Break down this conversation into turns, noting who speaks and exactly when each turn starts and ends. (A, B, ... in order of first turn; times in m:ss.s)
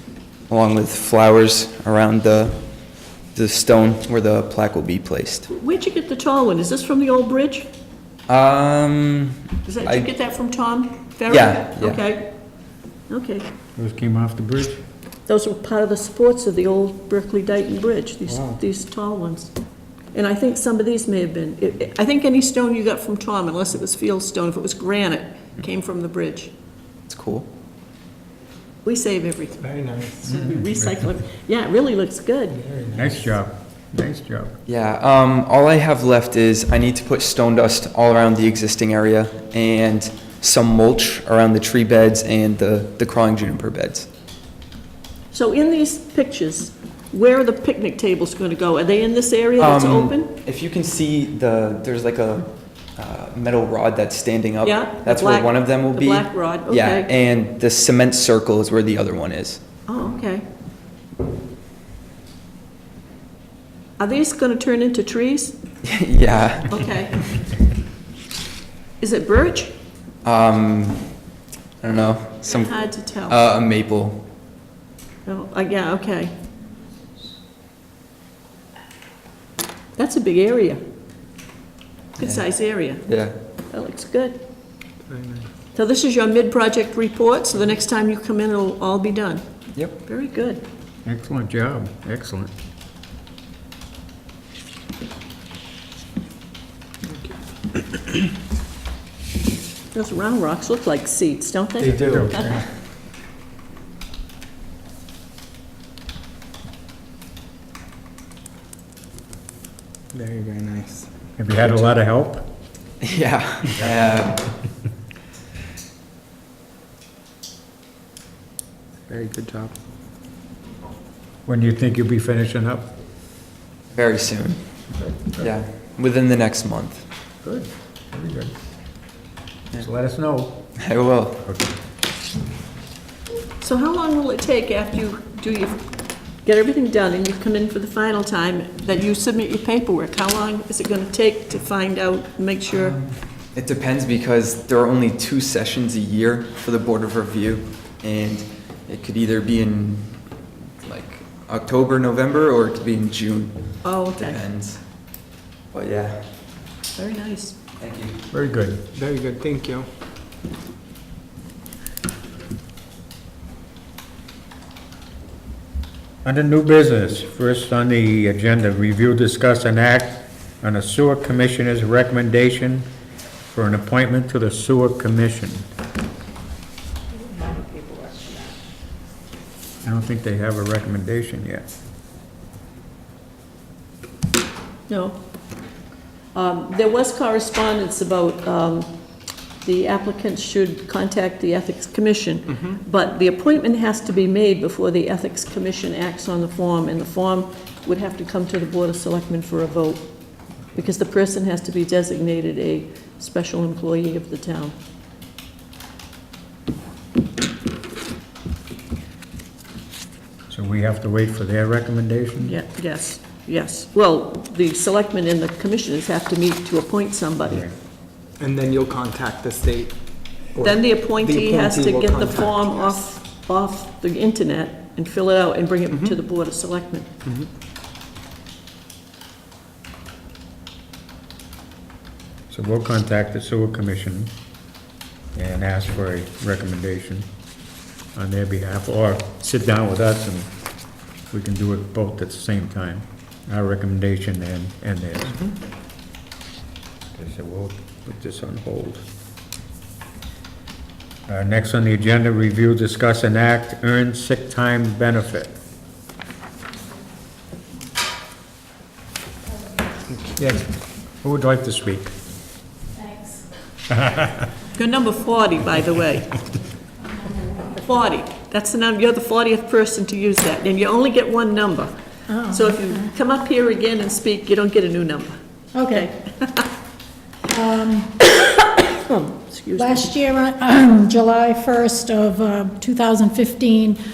0:00.5-0:02.6 A
0:03.3-0:05.5 A
0:05.5-0:07.7 B
0:08.3-0:10.1 A
0:09.6-0:12.3 B
0:11.3-0:12.0 A
0:13.1-0:13.4 B
0:13.8-0:14.8 C
0:15.3-0:19.5 B
0:18.3-0:18.6 A
0:20.1-0:26.5 B
0:27.1-0:27.4 A
0:28.8-0:32.6 B
0:29.6-0:30.4 D
0:30.2-0:31.1 C
0:32.5-0:33.3 D
0:32.9-0:34.6 C
0:34.7-0:44.1 A
0:45.3-0:50.3 B
0:49.6-0:59.6 A
0:54.6-0:57.1 B
0:59.9-1:00.4 B
1:04.0-1:05.6 B
1:05.8-1:06.8 A
1:06.6-1:07.4 B
1:09.0-1:09.7 B
1:10.2-1:11.2 A
1:11.8-1:14.2 A
1:12.5-1:13.4 B
1:15.2-1:16.3 B
1:20.0-1:20.8 B
1:22.2-1:23.0 B
1:22.2-1:23.4 A
1:23.7-1:24.4 B
1:25.0-1:25.5 D
1:25.7-1:29.4 B
1:30.0-1:30.6 B
1:31.0-1:32.5 C
1:37.0-1:38.1 D
1:39.9-1:42.6 B
1:41.8-1:42.6 D
1:41.8-1:42.5 C
1:50.1-1:51.7 D
1:51.4-1:52.4 C
1:53.0-1:54.5 A
1:59.1-1:59.7 D
2:01.4-2:02.9 C
2:03.9-2:04.6 A
2:05.0-2:05.5 C
2:05.4-2:07.0 A
2:07.4-2:08.5 C
2:09.8-2:10.6 C
2:10.8-2:11.4 A
2:11.4-2:11.7 C
2:13.6-2:15.8 B
2:16.4-2:23.0 B
2:22.7-2:30.3 A
2:30.8-2:34.8 A
2:33.8-2:34.4 B
2:35.7-2:36.3 A
2:37.0-2:37.6 B
2:37.8-2:38.2 A
2:38.3-2:38.9 C
2:38.9-2:39.8 D
2:46.2-2:52.8 C
2:53.4-2:55.7 C
2:57.3-2:58.4 E
2:59.8-3:01.7 C
3:04.9-3:05.2 B
3:06.3-3:08.9 B
3:09.6-3:20.1 B
3:12.5-3:12.8 D
3:20.7-3:24.7 B
3:30.5-3:32.6 C
3:32.4-3:37.7 B
3:37.5-3:37.7 C
3:38.4-3:40.0 D
3:40.5-3:42.7 D
3:40.6-3:47.1 B
3:45.9-3:46.2 D
3:52.5-3:54.4 C
3:55.3-3:57.2 C
3:58.1-4:00.5 C
4:01.3-4:05.5 C
4:07.1-4:09.0 C
4:11.3-4:15.6 C
4:21.2-4:22.1 C
4:23.0-4:23.4 E
4:24.7-4:26.4 B
4:27.8-4:36.6 B
4:32.3-4:33.1 E
4:35.7-4:36.1 E
4:37.5-4:38.1 E
4:39.0-4:40.1 B
4:39.8-4:44.0 E